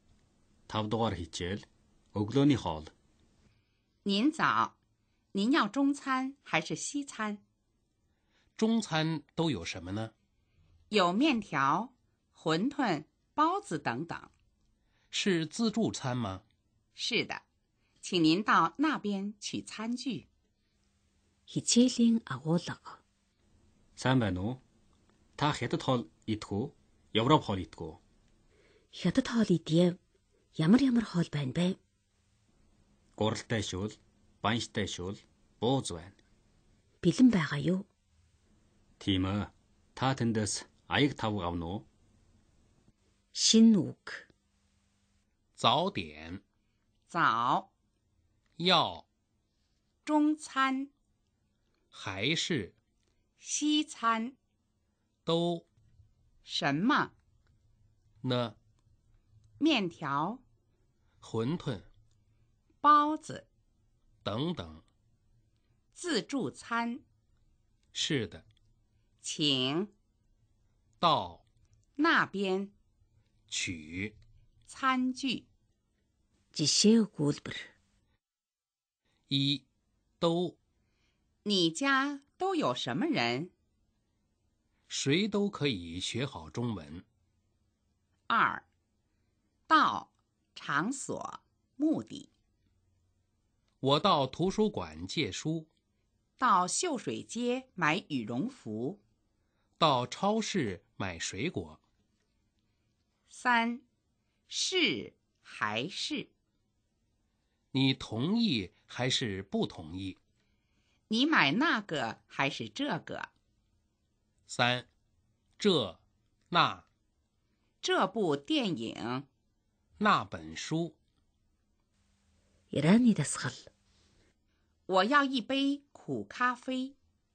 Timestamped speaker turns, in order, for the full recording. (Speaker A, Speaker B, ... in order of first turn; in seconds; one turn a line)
Speaker A: 0.7-2.9
Speaker B: 4.0-4.8
Speaker B: 5.3-7.4
Speaker C: 8.6-10.1
Speaker B: 10.9-14.3
Speaker C: 15.1-16.4
Speaker B: 16.9-17.4
Speaker B: 18.0-20.2
Speaker D: 21.5-23.0
Speaker A: 24.0-24.6
Speaker A: 25.4-28.0
Speaker D: 28.9-30.0
Speaker D: 30.6-31.8
Speaker A: 33.1-36.1
Speaker D: 37.0-37.9
Speaker A: 39.0-41.9
Speaker D: 43.3-44.2
Speaker C: 45.6-46.4
Speaker B: 47.1-47.7
Speaker C: 48.6-49.0
Speaker B: 50.0-50.9
Speaker C: 51.9-52.7
Speaker B: 53.4-54.3
Speaker C: 55.2-55.6
Speaker B: 56.4-57.1
Speaker C: 58.2-58.5
Speaker B: 59.6-60.4
Speaker C: 61.2-61.9
Speaker B: 62.8-63.5
Speaker C: 64.2-64.8
Speaker B: 65.9-67.0
Speaker C: 67.9-68.4
Speaker B: 69.2-69.9
Speaker C: 71.0-71.4
Speaker B: 72.0-72.7
Speaker C: 73.5-74.1
Speaker B: 74.7-75.5
Speaker D: 76.5-77.7
Speaker C: 79.3-79.6
Speaker C: 80.2-80.5
Speaker B: 81.4-83.5
Speaker C: 84.9-87.0
Speaker B: 88.3-88.6
Speaker B: 89.7-92.3
Speaker C: 93.8-95.7
Speaker B: 96.4-99.0
Speaker C: 99.8-101.8
Speaker B: 103.3-103.8
Speaker B: 104.5-106.3
Speaker C: 107.7-110.2
Speaker B: 111.1-113.3
Speaker C: 114.5-114.9
Speaker C: 115.6-116.8
Speaker B: 117.8-119.3
Speaker C: 120.0-121.0
Speaker D: 122.7-123.7
Speaker B: 124.9-126.9